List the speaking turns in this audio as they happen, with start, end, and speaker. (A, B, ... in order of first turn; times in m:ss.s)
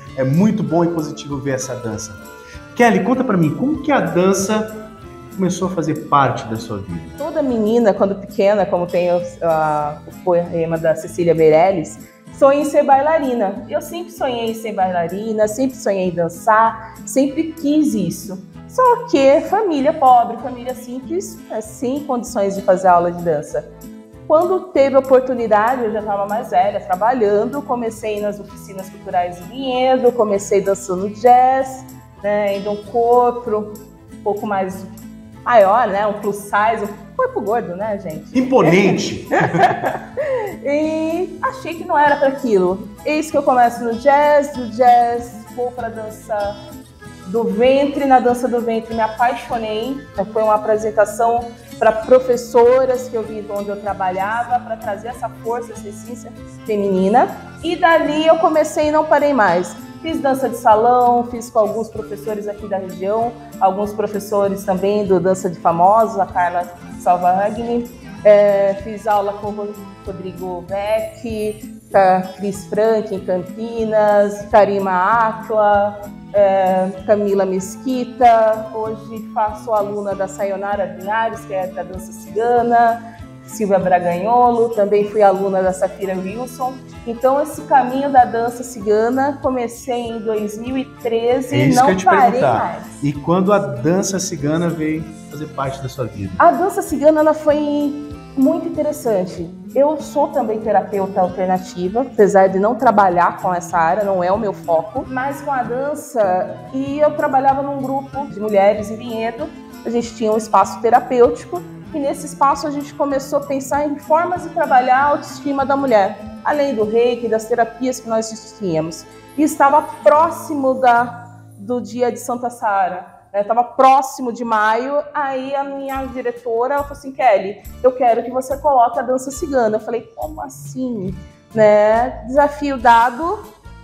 0:00.2-0:02.2 A
0:02.8-0:07.1 A
0:07.2-0:23.6 B
0:24.3-0:34.9 B
0:35.4-0:46.6 B
0:38.3-0:39.7 A
0:47.2-1:32.9 B
1:31.5-1:36.4 A
1:36.4-2:13.4 B